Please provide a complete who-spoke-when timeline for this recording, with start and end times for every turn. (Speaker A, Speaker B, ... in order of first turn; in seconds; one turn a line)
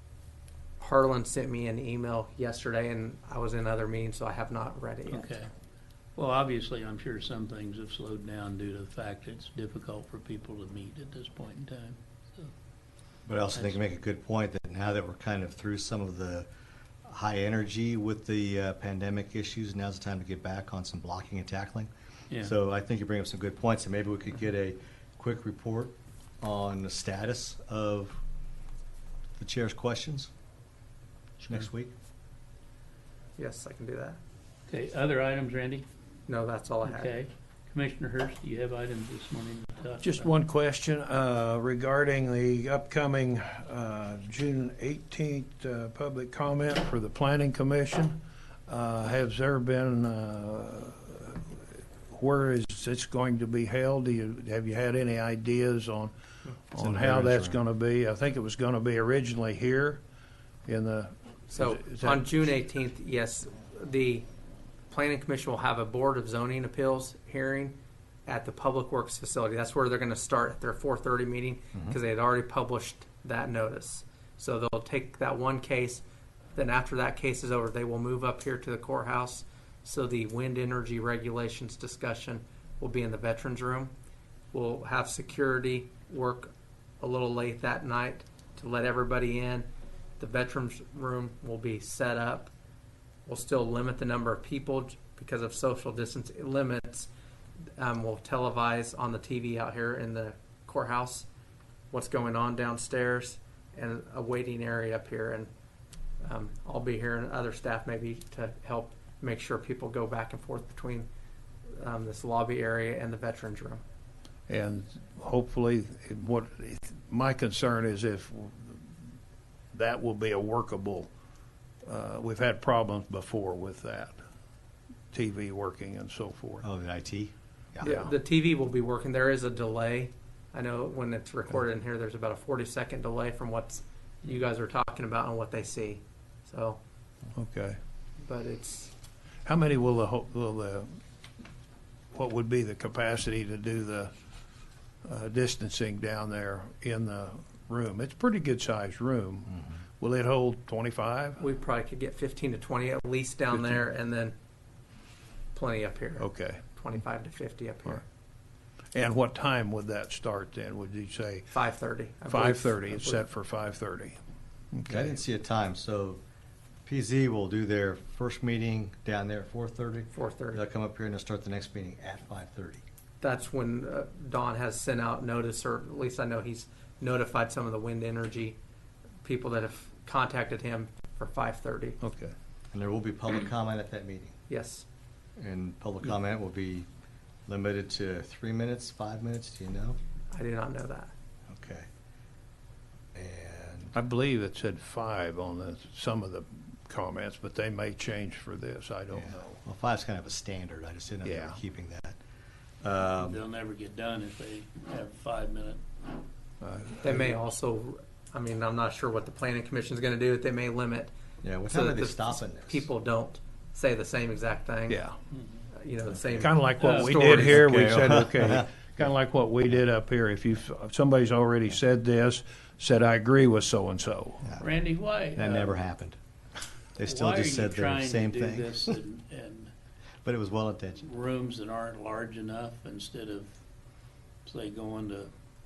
Speaker A: 0.8-5.3
Speaker B: 5.1-5.5
Speaker B: 6.2-12.5
Speaker C: 13.3-16.5
Speaker C: 17.1-28.2
Speaker C: 29.4-30.3
Speaker C: 31.5-31.9
Speaker A: 33.4-34.2
Speaker B: 34.7-35.9
Speaker A: 36.3-37.1
Speaker B: 36.8-40.3
Speaker D: 40.0-56.1
Speaker D: 56.7-60.0
Speaker C: 56.8-57.6
Speaker D: 60.7-62.3
Speaker A: 61.5-64.2
Speaker A: 64.9-67.8
Speaker A: 68.3-76.0
Speaker A: 76.5-83.9
Speaker A: 84.5-89.7
Speaker A: 90.2-92.5
Speaker A: 93.3-97.1
Speaker A: 97.8-101.3
Speaker A: 101.9-105.5
Speaker A: 106.2-111.1
Speaker A: 111.8-113.8
Speaker D: 114.5-119.0
Speaker D: 119.7-121.1
Speaker D: 121.8-124.2
Speaker D: 125.1-126.7
Speaker C: 126.6-127.9
Speaker A: 127.8-136.8
Speaker D: 127.8-128.1
Speaker D: 137.3-137.8
Speaker A: 138.2-138.9
Speaker D: 139.4-140.9
Speaker D: 142.1-144.1
Speaker D: 145.0-151.4
Speaker A: 151.4-154.3
Speaker A: 155.5-158.1
Speaker D: 156.2-156.6
Speaker D: 158.9-161.5
Speaker A: 161.5-163.2
Speaker D: 162.3-164.2
Speaker D: 164.7-165.1
Speaker C: 164.9-166.2
Speaker C: 166.9-172.8
Speaker A: 170.1-170.6
Speaker A: 173.2-178.6
Speaker A: 179.2-182.0
Speaker D: 182.0-182.3
Speaker C: 182.7-184.4
Speaker A: 184.5-184.8
Speaker C: 185.4-186.9
Speaker C: 187.5-190.0
Speaker A: 190.3-191.1
Speaker C: 191.5-191.9
Speaker C: 193.1-193.9
Speaker D: 193.9-199.6
Speaker C: 199.1-202.2
Speaker D: 201.2-201.6
Speaker C: 202.8-203.4
Speaker B: 203.2-205.8
Speaker D: 206.6-207.4
Speaker A: 207.0-211.1
Speaker C: 211.4-212.8
Speaker A: 211.7-215.0
Speaker D: 214.9-215.2
Speaker B: 215.4-215.6
Speaker A: 215.7-217.6
Speaker C: 216.1-216.5
Speaker D: 216.4-224.6
Speaker B: 216.8-217.4
Speaker C: 217.4-218.6
Speaker B: 224.6-225.8
Speaker C: 225.4-226.2
Speaker C: 227.0-228.9
Speaker B: 227.1-229.7
Speaker C: 230.2-231.1
Speaker B: 231.1-233.5
Speaker B: 234.5-235.3